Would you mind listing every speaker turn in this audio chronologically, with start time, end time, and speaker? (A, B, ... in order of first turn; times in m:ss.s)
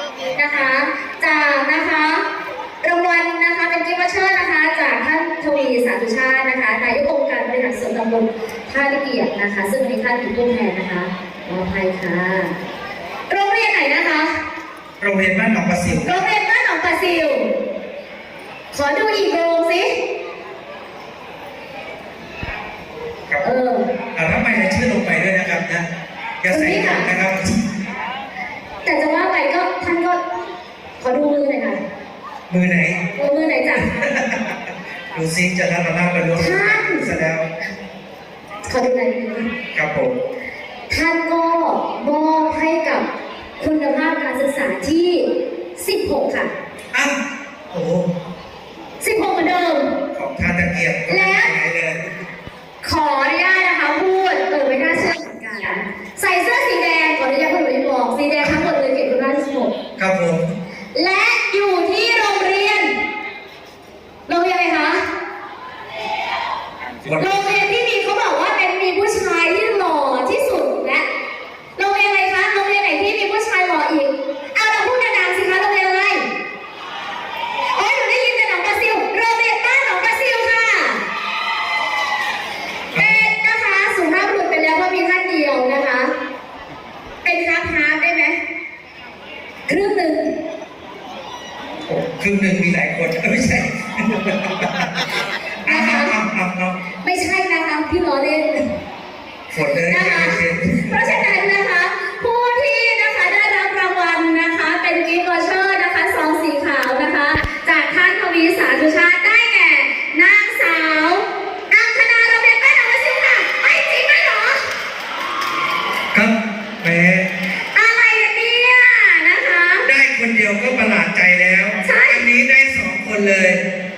0:00.3-0:02.2 A
0:02.8-0:12.5 A
0:13.3-0:14.3 A
0:15.0-0:16.1 B
0:16.0-0:17.5 A
0:18.7-0:19.9 A
0:23.4-0:23.8 A
0:24.2-0:25.8 B
0:26.4-0:27.5 B
0:26.5-0:27.1 A
0:28.8-0:30.2 A
0:31.0-0:31.8 A
0:32.5-0:33.0 B
0:33.2-0:33.9 A
0:33.8-0:34.6 B
0:35.1-0:37.5 B
0:36.4-0:37.1 A
0:38.7-0:39.5 A
0:39.7-0:40.2 B
0:40.9-0:43.0 A
0:43.6-0:46.5 A
0:47.7-0:48.1 B
0:49.0-0:49.9 A
0:50.1-0:52.1 B
0:51.1-0:51.5 A
0:52.8-0:59.7 A
1:00.0-1:00.5 B
1:00.9-1:02.9 A
1:04.3-1:05.0 A
1:07.0-1:07.4 B
1:07.2-1:11.0 A
1:11.8-1:16.2 A
1:17.7-1:21.0 A
1:22.9-1:26.1 A
1:27.2-1:28.4 A
1:29.7-1:30.3 A
1:31.9-1:35.0 B
1:35.6-1:36.8 B
1:35.6-1:36.1 A
1:37.0-1:38.6 A
1:39.5-1:41.2 B
1:39.9-1:54.6 A
1:56.1-1:57.3 B
1:57.7-1:59.9 A
1:59.8-2:03.6 B
2:01.8-2:02.2 A